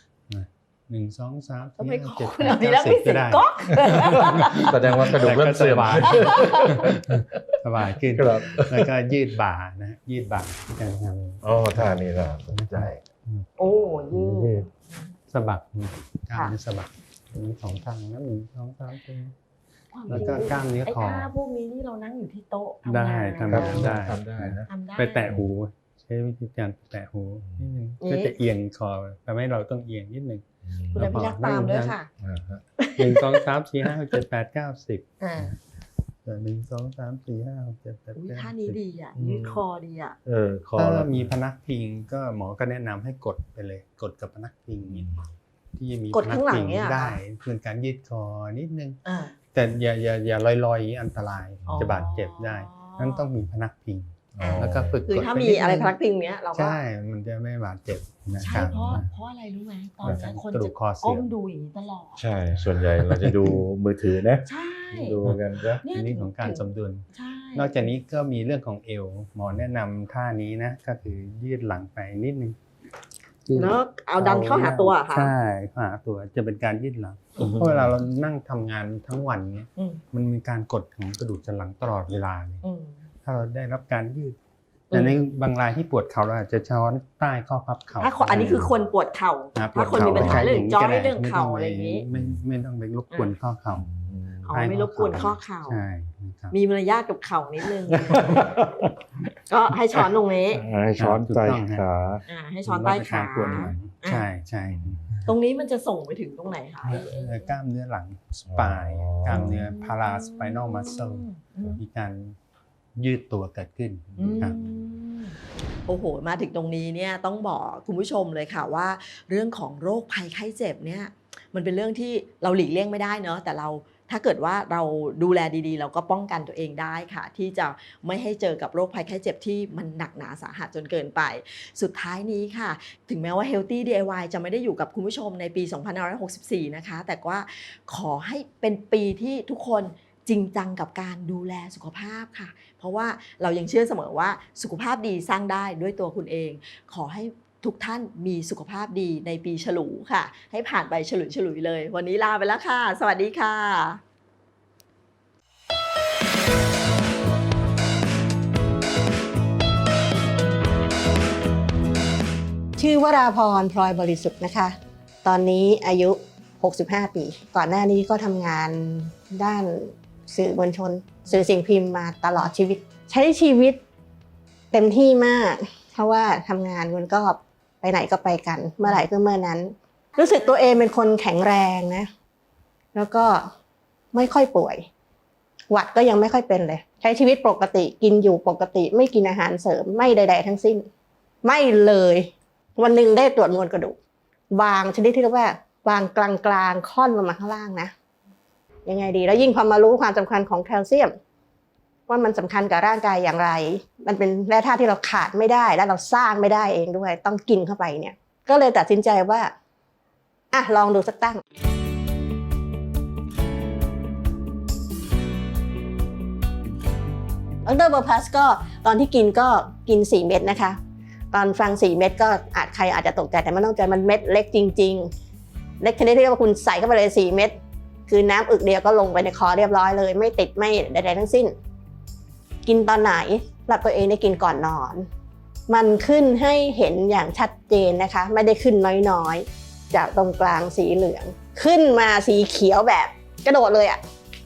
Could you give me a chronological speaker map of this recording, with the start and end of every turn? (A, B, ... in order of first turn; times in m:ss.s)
0:00.3-0:13.5 A
0:01.8-0:04.7 B
0:03.8-0:07.2 C
0:06.1-0:06.9 B
0:08.1-0:08.9 C
0:11.4-0:13.0 C
0:13.6-0:15.1 B
0:13.7-0:14.7 C
0:15.3-0:19.4 A
0:19.9-0:24.0 B
0:20.1-0:21.3 A
0:22.8-0:32.0 A
0:23.5-0:24.7 C
0:24.7-0:25.4 B
0:28.0-0:28.4 B
0:30.7-0:31.1 C
0:30.9-0:32.1 B
0:32.2-0:32.6 C
0:32.8-0:33.4 B
0:33.0-0:35.5 A
0:35.2-0:35.5 B
0:36.2-0:38.8 A
0:38.2-0:40.2 B
0:39.2-0:39.6 C
0:40.3-0:41.4 C
0:40.8-0:45.1 A
0:44.9-0:45.3 C
0:45.8-0:49.0 A
0:46.1-0:47.2 B
0:49.0-0:49.4 B
0:49.5-0:56.0 A
0:51.6-0:52.1 C
0:51.7-0:53.2 B
0:54.4-0:55.0 C
0:54.4-0:56.8 B
0:56.5-0:59.0 A
0:58.4-0:59.0 C
0:58.4-1:02.2 B
1:00.0-1:01.3 A
1:02.2-1:05.8 C
1:02.5-1:03.6 A
1:04.5-1:05.2 B
1:05.2-1:12.6 A
1:05.8-1:07.9 B
1:13.5-1:22.6 A
1:13.6-1:15.3 B
1:17.4-1:17.9 C
1:22.6-1:23.0 B
1:23.2-1:24.4 A
1:24.9-1:25.2 B
1:24.9-1:28.7 A
1:28.0-1:32.1 B
1:29.6-1:33.9 A
1:29.8-1:30.6 C
1:32.1-1:32.4 C
1:33.8-1:34.5 C
1:34.5-1:35.8 B
1:34.5-1:36.6 A
1:36.5-1:38.5 B
1:38.0-1:38.9 C
1:39.5-1:40.6 B
1:40.5-1:42.2 C
1:41.0-1:41.9 A
1:42.3-1:44.2 B
1:42.7-1:45.1 A
1:44.7-1:45.1 C
1:45.3-1:47.5 B
1:46.9-1:52.4 A
1:48.5-1:49.7 C
1:49.3-1:51.8 B
1:53.0-1:54.6 A
1:54.2-1:54.8 C
1:54.2-2:34.0 B
2:42.8-2:53.8 D
2:54.7-3:02.1 D
3:03.0-3:03.5 D
3:04.1-3:04.8 D
3:05.7-3:10.9 D
3:11.4-3:14.0 D
3:14.5-3:17.9 D
3:18.9-3:21.2 D
3:22.1-3:29.5 D
3:30.5-3:31.4 D
3:37.6-3:40.8 D
3:41.3-3:45.1 D
3:45.8-3:47.6 D
3:48.1-3:51.6 D
3:52.7-3:55.1 D
3:55.7-4:04.0 D